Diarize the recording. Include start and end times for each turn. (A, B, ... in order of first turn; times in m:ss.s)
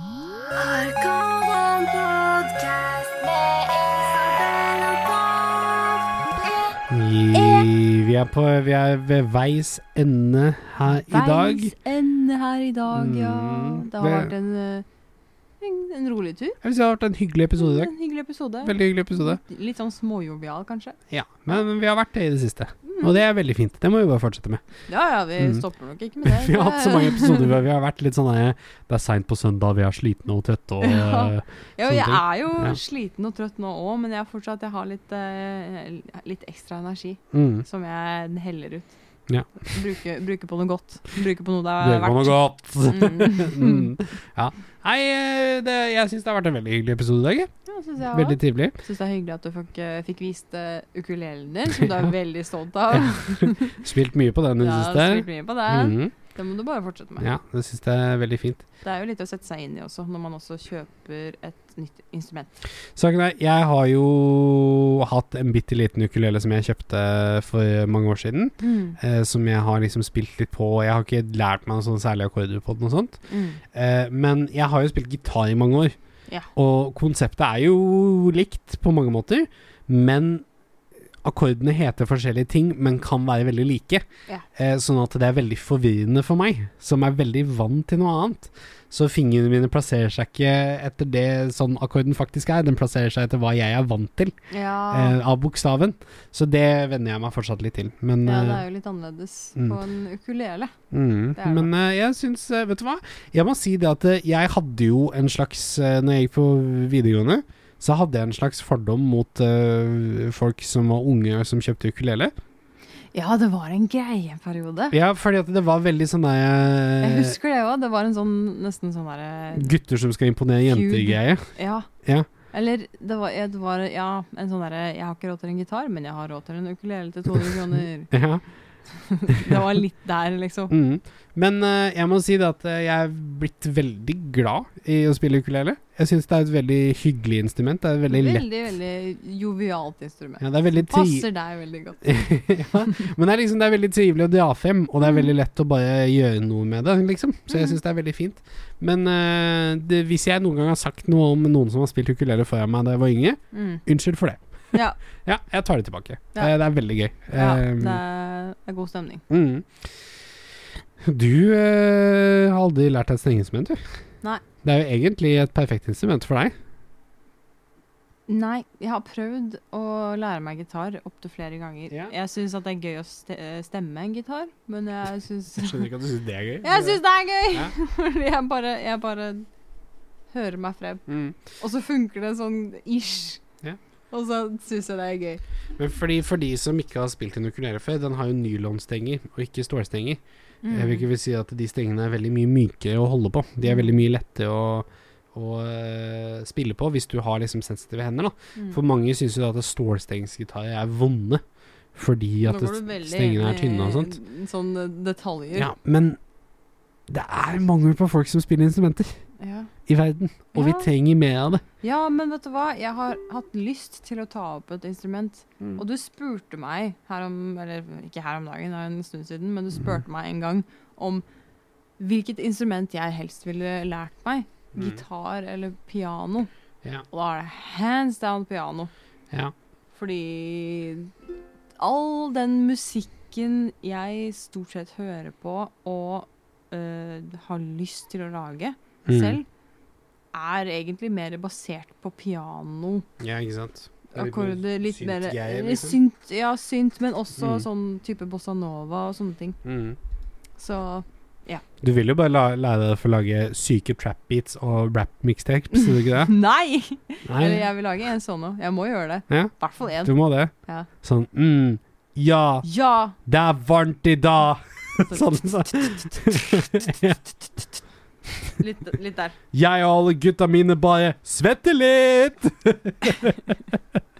0:00.5-0:05.6 A
0:00.6-0:02.1 B
0:06.9-0:11.7 C
0:07.3-0:07.7 B
0:11.0-0:14.8 B
0:12.9-0:14.3 C
0:15.6-0:16.6 B
0:16.6-0:17.9 C
0:17.6-0:21.0 B
0:18.6-0:19.4 C
0:21.1-0:24.6 C
0:22.8-0:23.2 B
0:24.9-0:27.6 B
0:26.2-0:32.8 C
0:30.8-0:38.9 B
0:37.3-0:37.6 C
0:39.6-0:43.9 B
0:41.8-0:47.5 C
0:47.6-0:53.8 B
0:48.1-0:48.7 C
0:51.7-0:52.1 C
0:52.9-0:56.1 C
0:54.6-0:57.3 B
0:57.2-0:58.6 C
0:58.8-1:02.6 B
1:03.0-1:13.2 C
1:08.6-1:09.0 B
1:13.3-1:13.6 B
1:13.7-1:16.0 C
1:16.5-1:20.4 C
1:21.2-1:34.3 C
1:34.5-1:35.2 B
1:34.9-1:38.6 C
1:38.2-1:40.7 B
1:40.9-1:52.3 C
1:41.4-1:41.7 B
1:53.1-1:54.9 B
1:54.9-1:57.4 C
1:57.0-1:59.7 B
1:59.6-2:01.5 C
2:00.6-2:01.9 B
2:02.0-2:02.3 C
2:02.5-2:08.1 B
2:08.1-2:08.4 C
2:08.9-2:10.7 B
2:09.4-2:09.6 C
2:10.7-2:18.4 C
2:18.1-2:22.2 B
2:20.4-2:21.3 C
2:22.0-2:34.4 C
2:27.5-2:27.8 B
2:33.5-2:33.8 B
2:34.7-2:35.0 B
2:35.2-2:38.0 C
2:37.3-2:39.2 B
2:39.3-2:39.9 C
2:41.0-2:43.8 C
2:44.6-2:46.5 C
2:48.3-2:55.9 B
2:55.6-2:57.7 C
2:56.6-2:59.5 B
3:00.3-3:03.4 B
3:01.1-3:01.4 C
3:04.1-3:05.4 B
3:05.8-3:21.4 C
3:10.6-3:11.1 B
3:13.6-3:13.9 B
3:21.9-3:24.2 C
3:22.4-3:25.7 B
3:25.5-3:26.2 C
3:27.1-3:29.2 C
3:29.4-3:29.7 B
3:29.9-3:31.6 C
3:30.5-3:30.9 B
3:31.8-3:41.2 B
3:42.0-3:46.5 B
3:44.8-3:45.0 C
3:47.1-3:48.9 B
3:49.9-3:51.1 B
3:51.8-3:59.4 B
3:59.1-3:59.4 C
4:00.3-4:03.1 B
4:03.2-4:06.0 C
4:04.1-4:09.6 B
4:07.4-4:07.6 C
4:09.6-4:10.0 C
4:10.6-4:11.6 B
4:11.8-4:16.3 C
4:15.7-4:20.9 B
4:17.3-4:17.7 C
4:19.3-4:22.7 C
4:22.6-4:23.2 B
4:23.2-4:27.2 C
4:25.0-4:26.4 B
4:28.6-4:29.4 B
4:29.5-4:33.8 C